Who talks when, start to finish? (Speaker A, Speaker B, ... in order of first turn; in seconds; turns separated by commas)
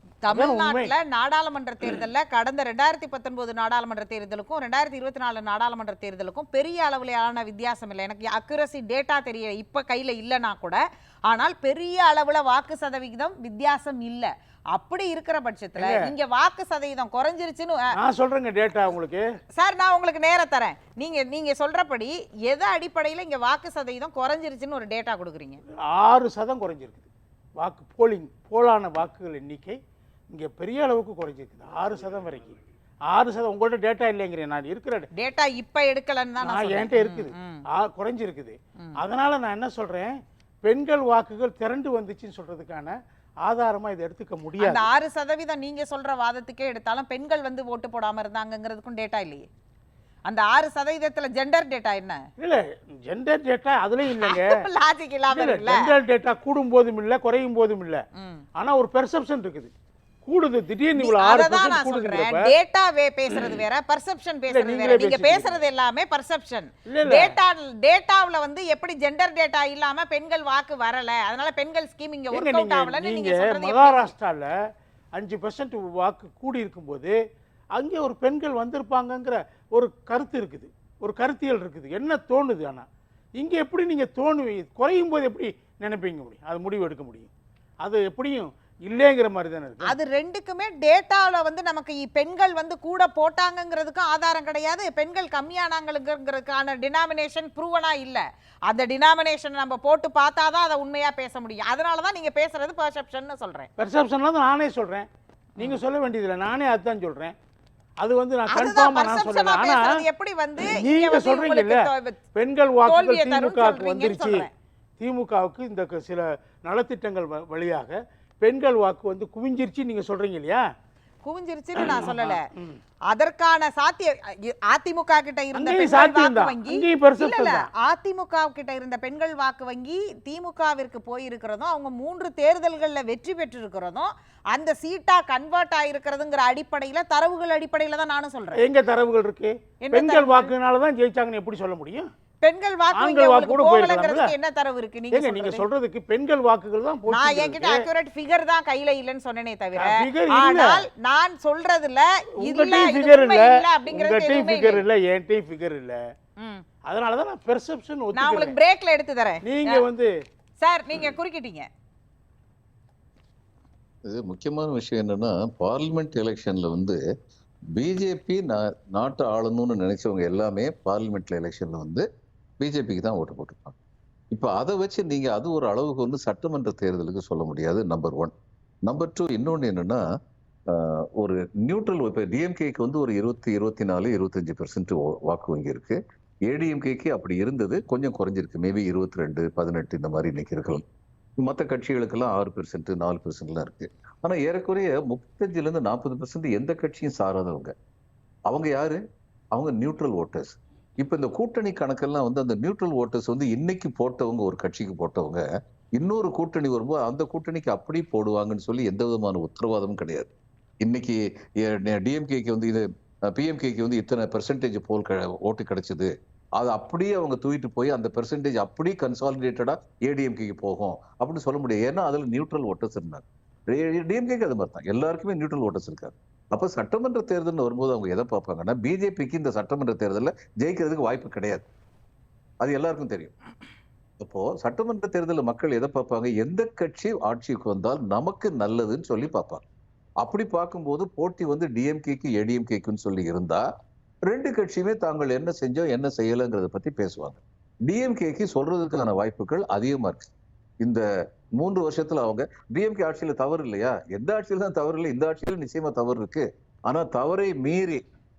Speaker A: 0.2-17.9, Speaker B: 0.3-0.9, Speaker B: 15.8-16.1, Speaker B: 18.0-19.2, Speaker A: 19.6-25.6, Speaker B: 25.9-29.8, Speaker B: 30.3-32.6, Speaker B: 33.1-35.1, Speaker A: 35.1-37.6, Speaker B: 36.4-44.9, Speaker A: 44.6-49.5, Speaker A: 50.3-52.2, Speaker B: 52.4-54.6, Speaker A: 54.2-55.8, Speaker B: 55.3-58.0, Speaker A: 58.2-58.5, Speaker B: 58.6-59.7, Speaker B: 60.3-62.5, Speaker A: 61.0-74.1, Speaker B: 64.5-65.6, Speaker B: 66.9-67.3, Speaker B: 72.3-74.5, Speaker B: 75.2-77.2, Speaker B: 77.8-82.9, Speaker B: 83.4-87.3, Speaker B: 87.8-90.0, Speaker A: 89.9-103.7, Speaker B: 103.8-105.1, Speaker B: 105.6-107.3, Speaker B: 108.0-110.0, Speaker A: 108.5-112.2, Speaker B: 110.6-114.5, Speaker A: 112.9-114.5, Speaker B: 115.0-120.6, Speaker A: 121.2-122.5, Speaker B: 121.8-122.8, Speaker A: 123.1-138.6, Speaker B: 125.5-127.7, Speaker B: 138.6-142.1, Speaker A: 139.8-140.5, Speaker A: 142.4-145.7, Speaker B: 143.0-144.3, Speaker B: 145.1-147.9, Speaker A: 147.1-154.8, Speaker B: 149.8-150.9, Speaker B: 152.4-156.0, Speaker A: 156.4-156.7, Speaker B: 156.9-158.6, Speaker A: 158.1-159.8, Speaker B: 159.4-160.1, Speaker A: 160.6-161.7, Speaker C: 164.1-167.0, Speaker C: 167.8-172.1, Speaker C: 172.6-173.8, Speaker C: 174.3-178.3, Speaker C: 178.9-180.0, Speaker C: 180.7-190.8, Speaker C: 191.4-197.7, Speaker C: 198.5-199.0, Speaker C: 199.5-205.4, Speaker C: 206.0-210.3, Speaker C: 210.8-231.7, Speaker C: 232.6-233.3, Speaker C: 234.2-239.6, Speaker C: 240.2-243.6, Speaker C: 244.3-250.3, Speaker C: 251.6-258.0